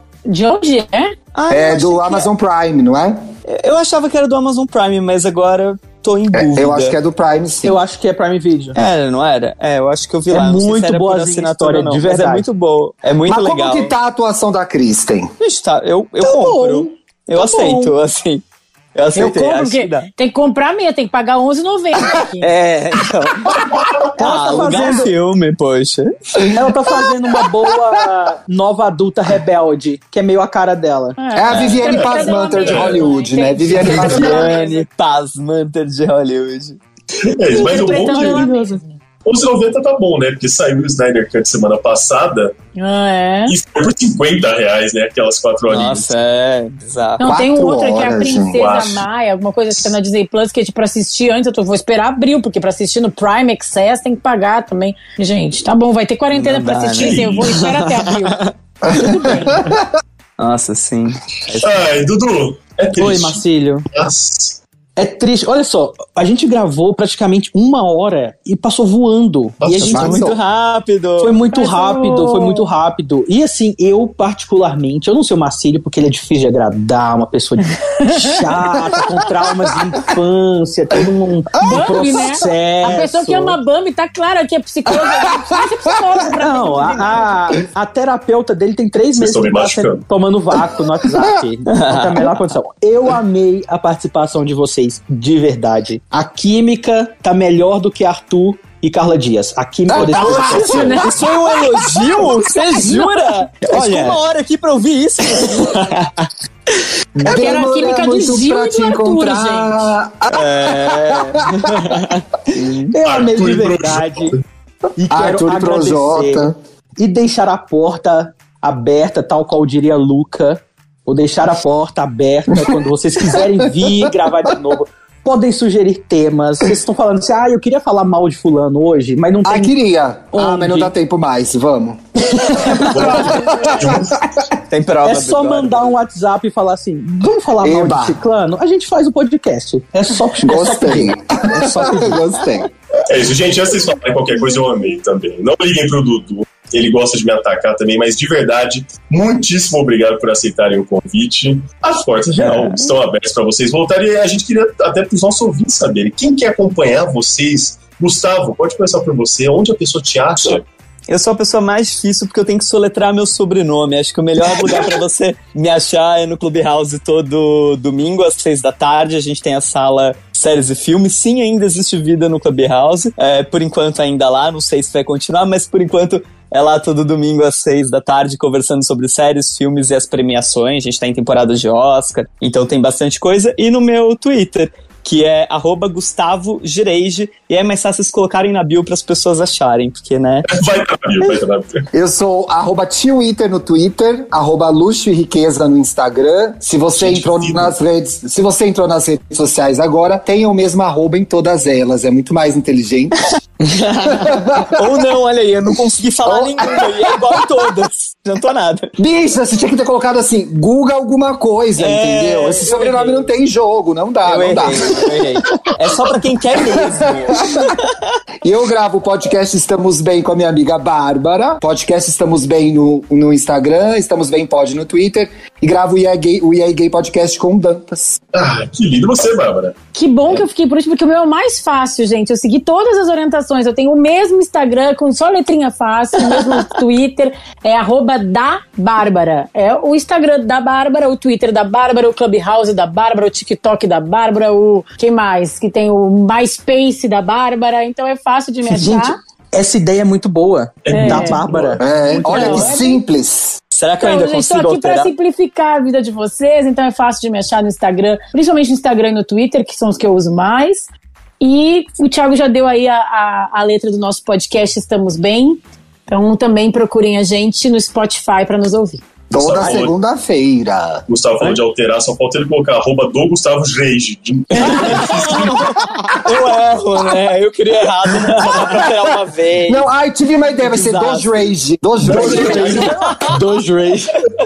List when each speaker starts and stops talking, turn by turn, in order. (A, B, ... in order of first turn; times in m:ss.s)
0:00.2-0:01.1 A
0:01.3-0:02.3 B
0:01.5-0:03.2 C
0:03.5-0:06.9 B
0:06.3-0:07.8 C
0:07.6-0:08.8 D
0:08.8-0:13.9 B
0:10.3-0:12.4 D
0:13.2-0:15.3 C
0:15.4-0:18.4 B
0:16.2-0:17.9 D
0:18.9-0:20.1 B
0:19.1-0:22.5 A
0:22.4-0:23.6 B
0:24.2-0:25.1 D
0:24.2-0:26.4 B
0:24.3-0:25.1 A
0:26.5-0:31.2 D
0:31.2-0:34.8 A
0:31.3-0:34.5 C
0:31.5-0:32.2 B
0:32.4-0:33.1 E
0:33.8-0:34.4 E
0:33.9-0:36.8 B
0:37.3-0:38.5 E
0:37.5-0:39.0 A
0:37.9-0:38.7 D
0:39.2-0:42.5 E
0:42.8-0:43.5 A
0:43.5-0:46.1 E
0:45.7-0:47.2 B
0:47.2-0:59.7 A
0:47.2-0:48.6 C
0:48.5-0:49.0 E
0:56.3-0:58.4 B
0:57.0-0:57.6 E
0:58.8-0:59.8 C
1:00.4-1:01.9 B
1:01.6-1:03.4 E
1:03.0-1:03.8 D
1:03.9-1:04.6 E
1:05.0-1:10.2 D
1:09.6-1:10.2 E
1:09.8-1:11.4 B
1:09.9-1:10.4 C
1:11.2-1:23.6 D
1:11.5-1:12.6 A
1:17.6-1:18.5 A
1:21.6-1:27.6 A
1:21.7-1:22.3 C
1:26.4-1:41.0 D
1:29.1-1:30.0 E
1:31.7-1:32.3 B
1:39.9-1:41.1 C
1:40.0-1:41.3 A
1:40.8-1:46.3 B
1:43.6-1:44.2 D
1:47.2-1:51.4 C
1:47.2-1:49.9 A
1:50.3-1:52.9 B
1:52.9-1:54.4 D
1:53.0-1:54.4 E
1:55.0-2:09.7 D
1:55.1-1:56.6 C
2:03.5-2:04.1 C
2:09.4-2:14.4 C
2:10.3-2:10.9 D
2:12.6-2:12.8 D
2:12.9-2:14.2 E
2:12.9-2:13.9 A
2:14.7-2:15.9 B
2:15.0-2:22.4 D
2:17.6-2:18.2 C
2:20.4-2:22.7 C
2:23.1-2:40.6 E
2:32.3-2:32.9 B
2:40.4-3:10.4 B
3:10.5-3:11.8 E
3:11.9-3:23.3 C
3:17.0-3:17.8 E
3:23.6-3:28.9 B
3:24.1-3:24.7 C
3:26.2-3:27.4 C
3:29.0-3:35.1 C
3:31.8-3:33.3 B
3:34.2-3:38.1 B
3:36.6-3:37.7 C
3:38.4-3:48.2 C
3:48.3-3:49.7 E
3:49.9-4:09.2 A
4:08.7-4:12.7 D
4:10.8-4:11.8 E
4:10.9-4:13.0 A
4:11.8-4:13.6 C
4:13.7-4:15.1 B
4:14.0-4:20.9 A
4:21.4-4:29.0 A
4:29.3-4:29.9 E
4:29.3-4:31.0 C
4:31.1-4:35.6 E
4:34.5-4:39.8 B
4:38.2-4:39.0 C
4:39.6-4:43.2 C
4:40.6-4:41.5 B
4:42.0-4:42.9 E
4:42.0-4:43.3 B
4:42.1-4:44.1 D